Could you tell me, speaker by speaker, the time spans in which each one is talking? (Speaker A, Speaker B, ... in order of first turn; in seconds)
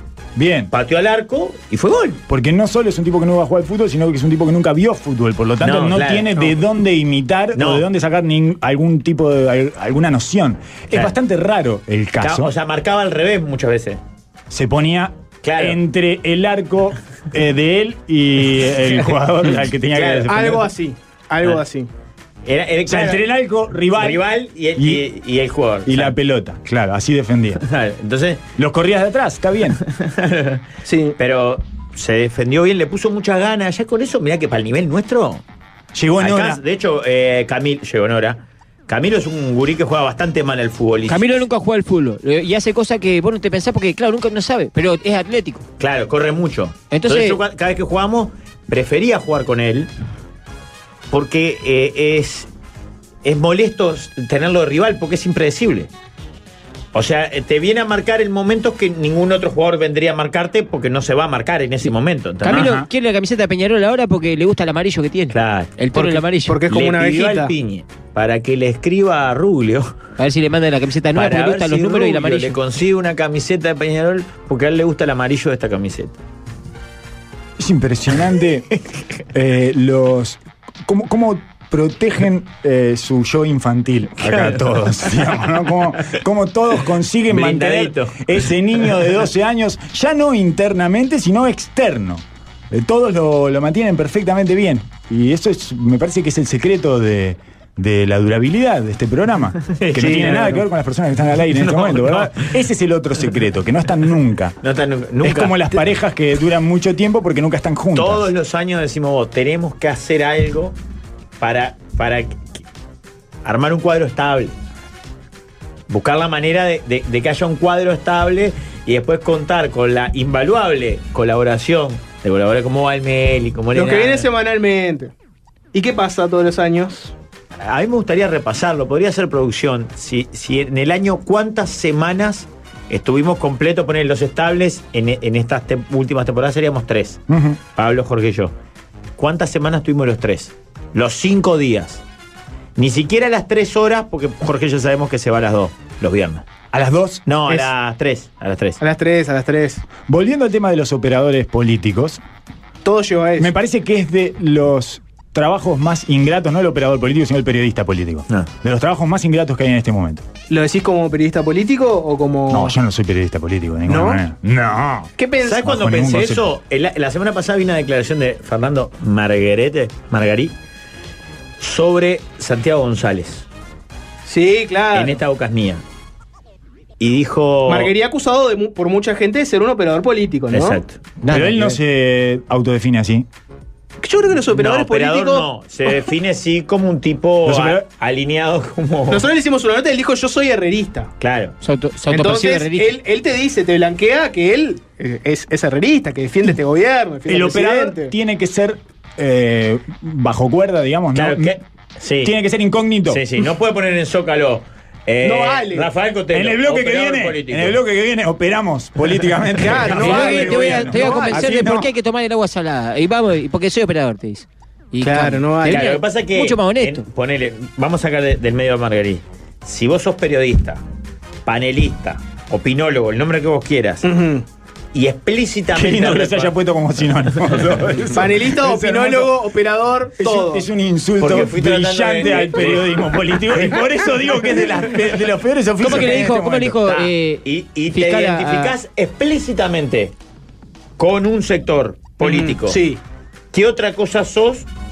Speaker A: 0.3-0.7, 2.3-12.5, 14.5-20.7, 22.9-24.2, 24.8-25.0, 25.9-27.6, 28.6-29.8, 35.9-36.6, 62.5-62.9, 77.6-78.7, 79.3-104.5, 105.2-108.3, 137.3-137.6, 146.7-147.2, 150.1-152.2, 153.4-160.2, 162.5-166.4, 181.3-183.3, 187.4-187.8, 197.3-201.6, 202.2-203.2, 206.3-211.9, 225.7-229.3, 230.2-236.8
Speaker B: 0.7-2.2, 5.6-6.5, 7.5-7.8, 12.2-14.0, 15.4-15.8, 19.9-20.3, 22.4-23.2, 23.9-26.1, 27.6-28.4, 29.8-30.6, 31.2-35.4, 36.2-41.4, 45.8-49.9, 51.1-52.5, 53.2-55.9, 56.9-62.8, 65.3-65.8, 66.7-70.0, 71.1-76.2, 84.2-85.3, 87.3-88.9, 99.7-100.7, 101.5-102.5, 104.6-105.8, 107.9-110.8, 111.4-112.5, 113.4-114.5, 115.9-124.3, 127.6-137.2, 137.8-138.5, 139.2-142.0, 142.8-146.5, 147.2-148.8, 165.4-170.5, 171.6-173.4, 174.9-175.8, 177.0-177.9, 180.5-181.0, 184.5-189.2, 191.2-191.6, 201.1-202.3, 203.1-207.8, 209.9-210.5, 215.7-220.8, 221.4-224.1, 224.9-226.5, 231.2-233.8, 235.8-240.1, 241.0-242.8, 243.5-244.7
Speaker C: 20.3-21.9, 30.9-31.1, 65.9-67.5, 123.7-125.1, 125.7-127.1, 148.8-149.8, 152.8-153.5, 160.5-162.7, 163.8-164.2, 165.2-165.6, 174.2-175.2, 177.7-180.8, 184.0-185.5, 189.1-191.1, 192.1-198.1, 205.2-205.9, 209.6-211.6, 215.0-215.9, 224.0-224.4, 228.1-230.7, 242.2-243.0
Speaker D: 41.1-45.6, 46.9-47.4, 62.4-66.6, 70.2-72.5, 181.2-181.8, 191.6-192.9, 209.9-217.0, 235.8-238.7